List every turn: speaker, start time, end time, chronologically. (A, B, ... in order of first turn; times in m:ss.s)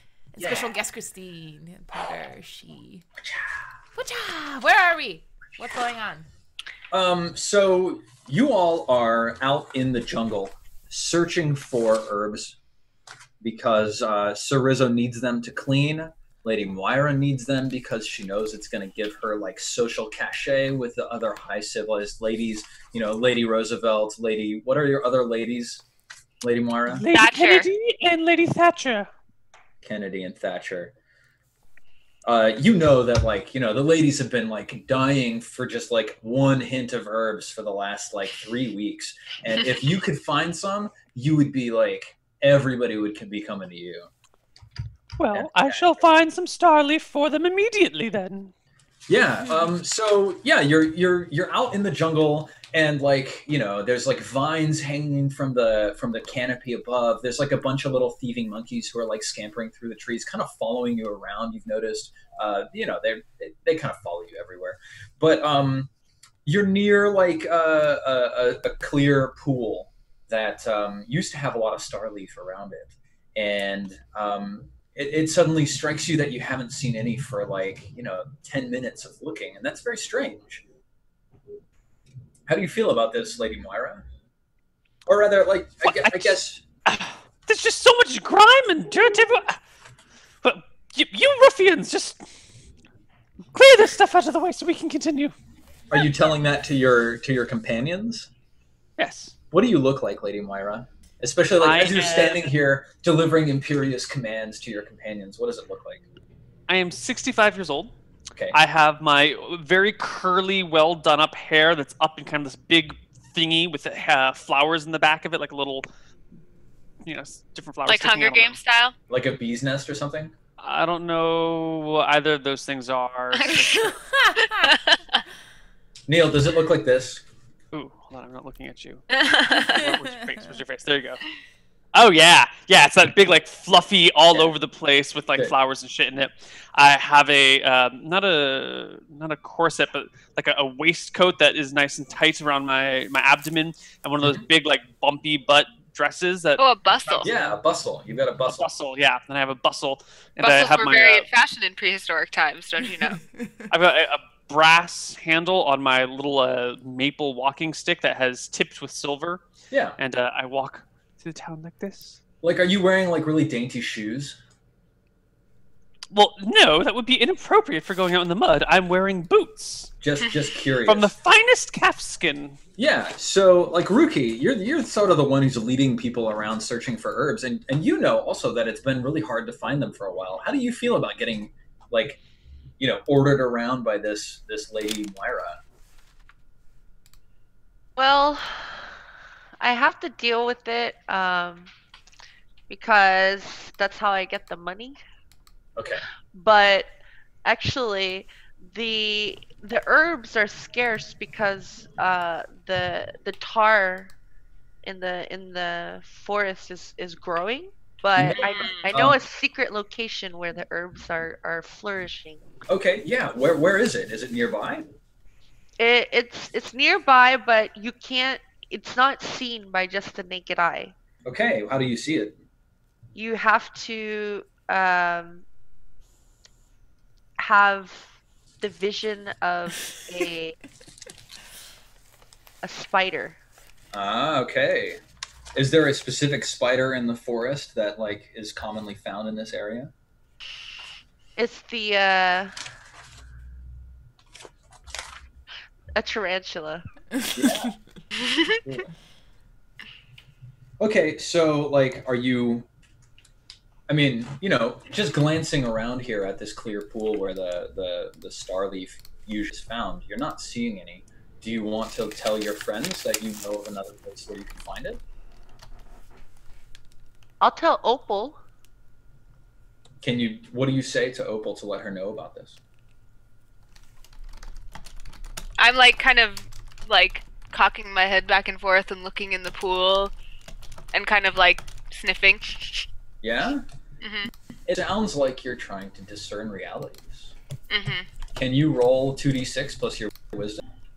0:00.3-0:03.0 A
0:00.4-0:00.7 B
0:03.2-0:03.5 B
0:04.0-0:06.3 A
0:06.9-0:12.6 B
0:13.4-0:25.8 B
0:26.4-0:27.1 B
0:26.9-0:29.1 C
0:27.1-0:27.7 D
0:29.8-0:30.9 B
0:32.3-0:44.1 B
0:45.2-0:48.5 C
0:45.3-0:46.0 B
0:49.1-1:05.9 B
1:06.4-1:20.6 B
1:22.5-1:24.0 B
1:25.1-1:26.6 B
1:25.8-1:29.6 C
1:30.4-1:32.3 C
1:33.5-1:35.3 C
1:35.9-1:38.3 B
1:39.0-1:39.3 C
1:39.5-1:46.0 B
1:41.6-1:42.5 C
1:46.7-1:48.0 C
1:48.5-1:55.9 C
1:57.0-1:58.6 C
1:57.9-1:58.9 D
1:59.1-2:00.3 B
2:00.6-2:04.2 C
2:03.8-2:04.7 A
2:04.6-2:05.2 D
2:06.1-2:07.2 B
2:07.7-2:11.2 C
2:09.1-2:09.8 D
2:11.9-2:27.4 C
2:26.6-2:27.3 D
2:27.2-2:28.7 B
2:28.5-2:31.3 C
2:30.4-2:33.2 D
2:33.7-2:39.4 C
2:39.7-2:40.0 B
2:40.0-2:42.2 C
2:42.4-2:44.4 B
2:46.1-2:49.9 C
2:50.0-2:51.1 B
2:50.9-2:52.6 C
2:52.8-3:02.2 B
3:02.8-3:05.6 B
3:08.0-3:08.9 E
3:09.6-3:11.7 E
3:12.7-3:15.0 E
3:15.8-3:16.0 B
3:16.3-3:16.9 E
3:17.4-3:24.1 E
3:24.8-3:32.4 E
3:28.2-3:29.2 B
3:28.3-3:28.8 D
3:32.7-3:34.9 B
3:35.8-3:40.9 E
3:41.2-3:42.4 B
3:43.1-3:45.4 E
3:47.4-3:50.6 E
3:52.6-3:53.4 E
3:53.9-3:55.0 B
3:55.6-3:59.9 B
4:01.4-4:02.5 E
4:06.0-4:06.8 E
4:07.3-4:07.7 B
4:08.2-4:08.6 D
4:08.6-4:08.9 B
4:10.8-4:12.7 B
4:13.9-4:25.0 B
4:27.4-4:28.4 E
4:30.0-4:32.6 B
4:35.6-4:40.1 D
4:40.9-4:42.8 D
4:43.2-4:43.6 B
4:44.0-4:44.3 D
4:44.7-4:47.3 B
4:47.7-4:48.1 D
4:48.4-4:50.6 B